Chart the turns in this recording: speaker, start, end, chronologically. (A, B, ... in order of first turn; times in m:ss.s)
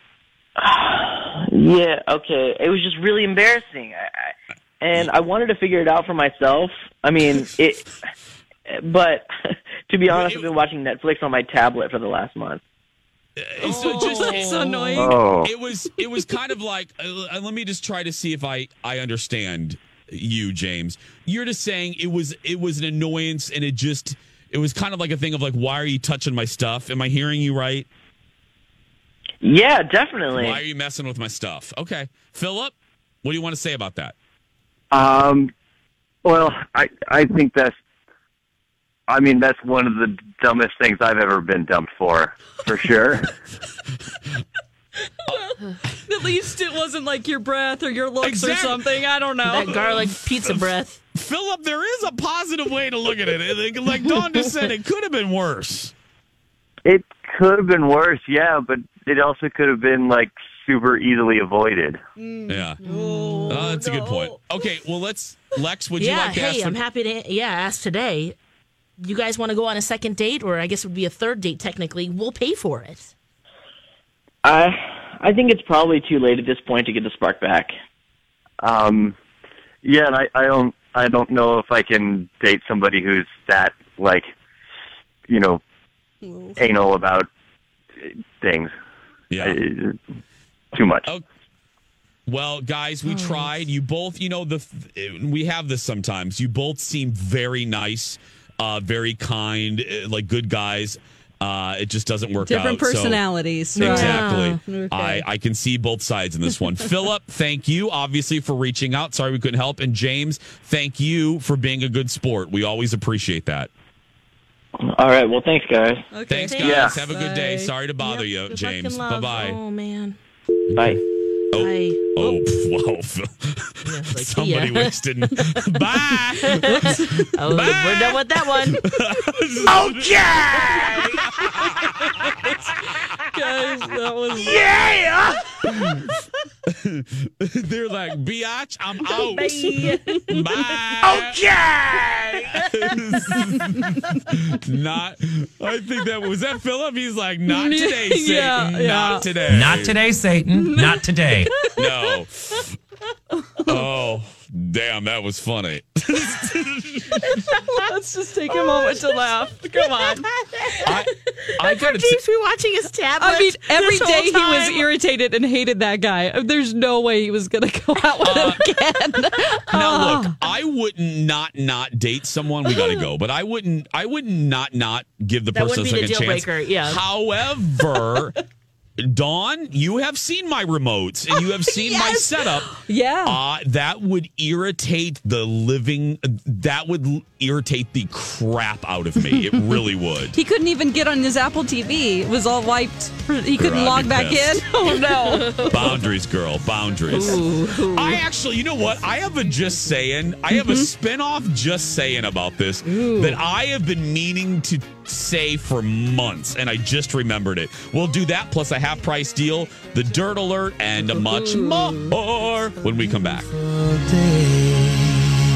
0:00.6-0:04.3 A
0:04.8-0:07.8 A
0:08.7-0:09.3 A
0:09.9-0:12.6 A
0:10.1-0:10.5 B
0:13.4-0:27.8 B
0:13.6-0:15.2 C
0:13.8-0:14.4 D
0:15.0-0:15.5 E
0:29.4-0:30.6 A
0:30.3-0:34.1 B
0:34.9-0:35.5 E
0:36.2-0:37.7 E
0:39.1-0:43.3 E
0:46.0-0:49.8 C
0:48.2-0:48.9 B
0:49.5-0:51.0 D
0:49.6-0:55.9 B
0:56.8-1:02.0 E
1:02.2-1:04.4 C
1:02.5-1:02.8 B
1:03.0-1:03.6 D
1:03.5-1:06.8 B
1:06.0-1:08.4 D
1:09.0-1:13.1 D
1:14.4-1:17.7 A
1:18.6-1:19.1 E
1:19.8-1:24.3 E
1:25.3-1:25.6 E
1:26.2-1:26.6 C
1:26.6-1:27.3 E
1:28.0-1:28.7 E
1:29.3-1:29.6 B
1:29.4-1:30.0 E
1:30.7-1:31.0 E
1:32.2-1:43.2 B
1:33.0-1:33.5 D
1:42.4-1:45.2 C
1:43.7-1:53.7 B
1:43.8-1:44.6 D
1:54.9-1:56.0 A
1:56.1-1:57.7 C
1:56.3-1:59.6 B
1:56.4-1:57.1 D
1:58.0-2:00.2 D
2:00.7-2:01.0 B
2:01.5-2:12.5 B
2:01.5-2:02.1 D
2:03.8-2:05.6 D
2:06.4-2:08.8 D
2:06.6-2:07.3 C
2:10.3-2:10.9 D
2:10.8-2:12.4 C
2:13.3-2:14.6 C
2:14.7-2:15.1 B
2:15.6-2:16.1 B
2:16.7-2:30.0 B
2:19.1-2:20.4 D
2:20.3-2:20.6 C
2:22.0-2:22.7 D
2:22.9-2:24.0 C
2:27.5-2:29.3 C
2:29.5-2:31.5 F
2:30.5-2:32.0 C
2:31.7-2:32.6 B
2:33.4-2:33.8 C
2:33.6-2:37.0 B
2:37.4-2:40.3 C
2:40.7-2:44.9 D
2:40.8-2:42.2 B
2:43.2-2:50.4 C
2:48.2-2:48.6 B
2:49.7-2:58.4 B
2:52.7-2:53.0 C
2:55.5-2:57.0 D
2:59.0-3:10.4 B
3:01.3-3:03.4 C
3:09.3-3:09.8 C
3:10.3-3:15.6 C
3:13.6-3:14.6 B
3:15.0-3:16.0 D
3:15.7-3:33.5 B
3:17.1-3:18.2 D
3:20.5-3:20.9 C
3:22.8-3:23.4 D
3:31.0-3:32.2 D
3:32.8-3:33.3 D